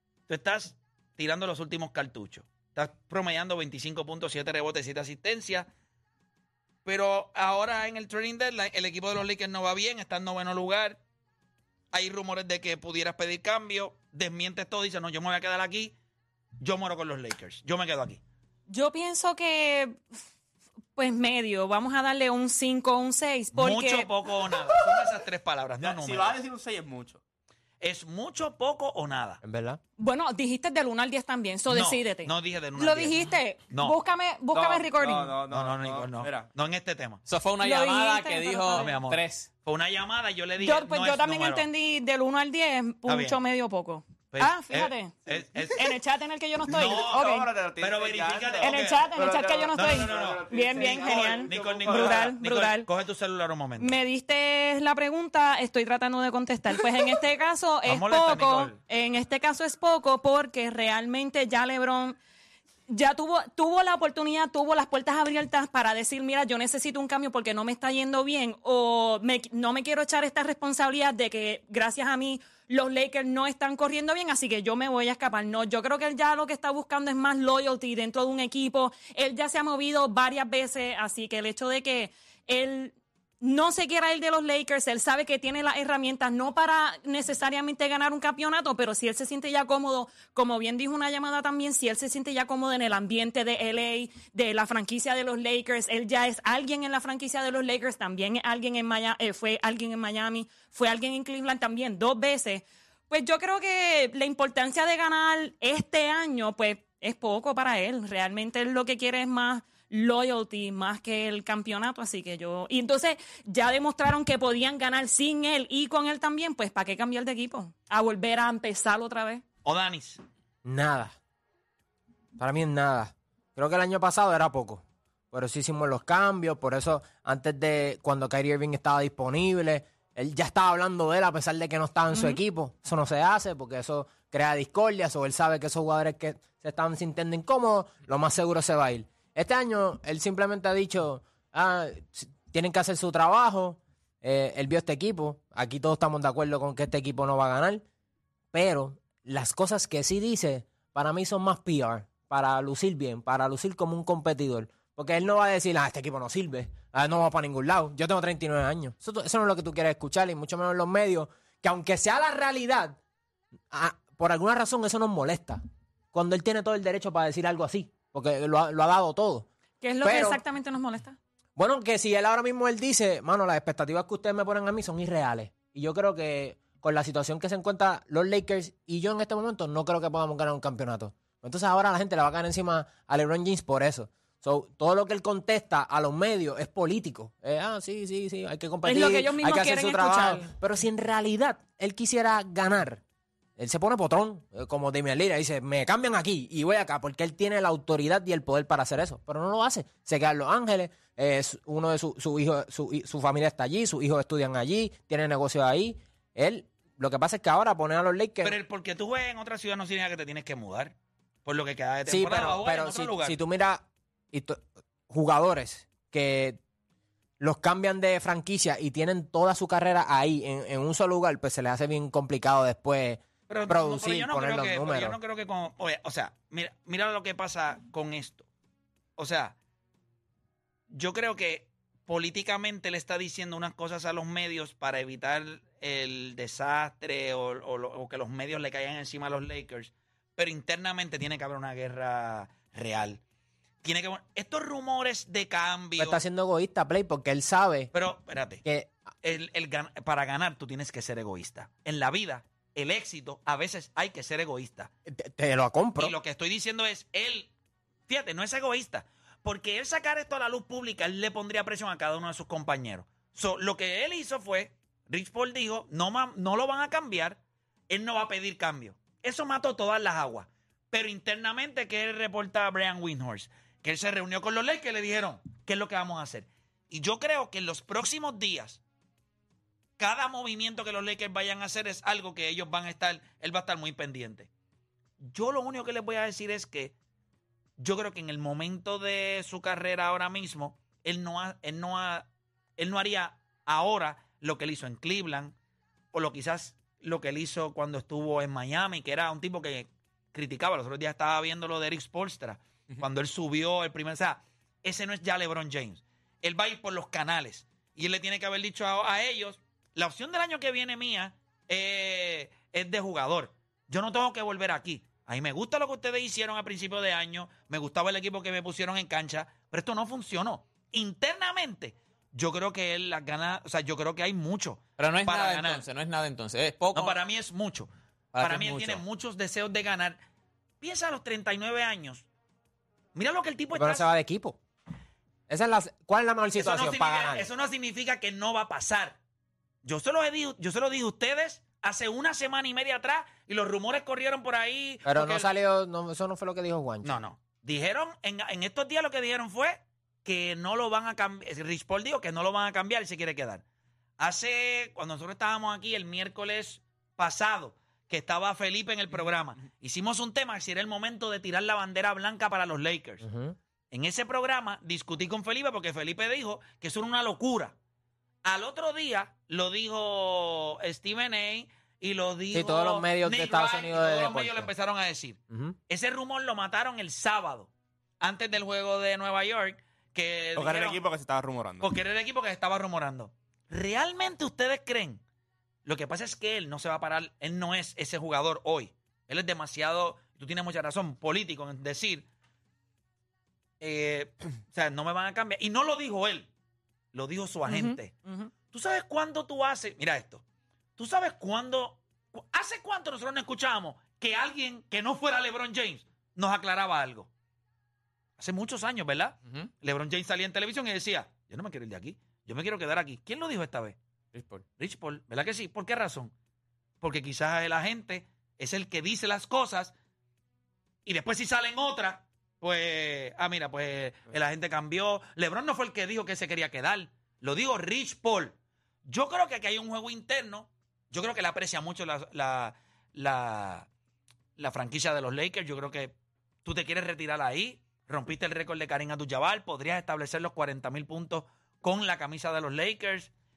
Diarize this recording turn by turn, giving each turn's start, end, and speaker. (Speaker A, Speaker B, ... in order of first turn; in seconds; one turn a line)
Speaker A: 0.3-5.7
Speaker A: 6.8-11.0
Speaker A: 11.9-15.9
Speaker A: 16.6-18.2
Speaker B: 18.7-20.0
Speaker B: 20.9-24.1
Speaker A: 23.5-26.4
Speaker C: 25.8-27.2
Speaker A: 27.8-29.4
Speaker D: 29.4-29.8
Speaker B: 30.0-35.4
Speaker A: 31.7-33.2
Speaker A: 33.7-34.0
Speaker C: 34.5-36.5
Speaker A: 35.5-37.2
Speaker E: 37.3-39.5
Speaker B: 37.6-38.9
Speaker A: 38.7-41.6
Speaker B: 40.6-47.5
Speaker A: 43.0-43.4
Speaker A: 44.3-45.8
Speaker C: 46.7-52.3
Speaker A: 46.8-47.2
Speaker A: 47.8-49.0
Speaker B: 48.6-52.9
Speaker A: 49.7-54.0
Speaker B: 53.8-62.2
Speaker A: 57.8-58.8
Speaker B: 62.9-119.4
Speaker A: 119.6-120.2
Speaker D: 120.6-121.2
Speaker D: 122.4-147.8
Speaker B: 132.1-132.4
Speaker D: 148.5-163.0
Speaker D: 163.7-165.6
Speaker D: 166.1-169.5
Speaker B: 169.8-171.2
Speaker D: 170.0-170.4
Speaker D: 171.6-193.0
Speaker B: 188.8-190.5
Speaker D: 193.6-208.6
Speaker A: 208.4-210.9
Speaker A: 211.4-213.4
Speaker D: 212.1-216.6
Speaker D: 217.4-225.2
Speaker A: 223.5-228.4
Speaker A: 229.2-229.5
Speaker A: 230.9-243.2
Speaker A: 243.8-246.2
Speaker D: 246.0-247.9
Speaker A: 247.9-248.6
Speaker D: 248.6-248.9
Speaker A: 249.2-254.9
Speaker D: 255.1-256.1
Speaker A: 256.0-257.5
Speaker A: 258.1-278.8
Speaker A: 280.0-284.5
Speaker A: 285.2-286.9
Speaker A: 287.8-295.5
Speaker A: 296.1-325.8
Speaker E: 325.0-327.2
Speaker A: 326.9-330.2
Speaker E: 328.3-329.0
Speaker A: 330.8-332.2
Speaker A: 333.1-334.1
Speaker D: 333.7-334.6
Speaker D: 335.5-337.5
Speaker A: 336.6-339.2
Speaker A: 339.8-345.5
Speaker D: 345.0-347.1
Speaker A: 347.0-353.6
Speaker A: 354.2-363.2
Speaker D: 363.2-363.6
Speaker A: 363.9-367.7
Speaker A: 368.4-377.7
Speaker D: 372.5-374.7
Speaker D: 375.5-375.8
Speaker A: 378.2-381.0
Speaker C: 380.5-381.9
Speaker A: 381.8-385.2
Speaker A: 385.8-392.2
Speaker A: 393.8-396.5
Speaker A: 397.1-400.4
Speaker B: 397.6-398.5
Speaker A: 401.0-407.3
Speaker A: 408.4-414.0
Speaker E: 414.3-414.6
Speaker A: 414.8-416.3
Speaker A: 417.0-419.9
Speaker A: 421.1-428.5
Speaker A: 429.1-433.9
Speaker A: 434.6-443.3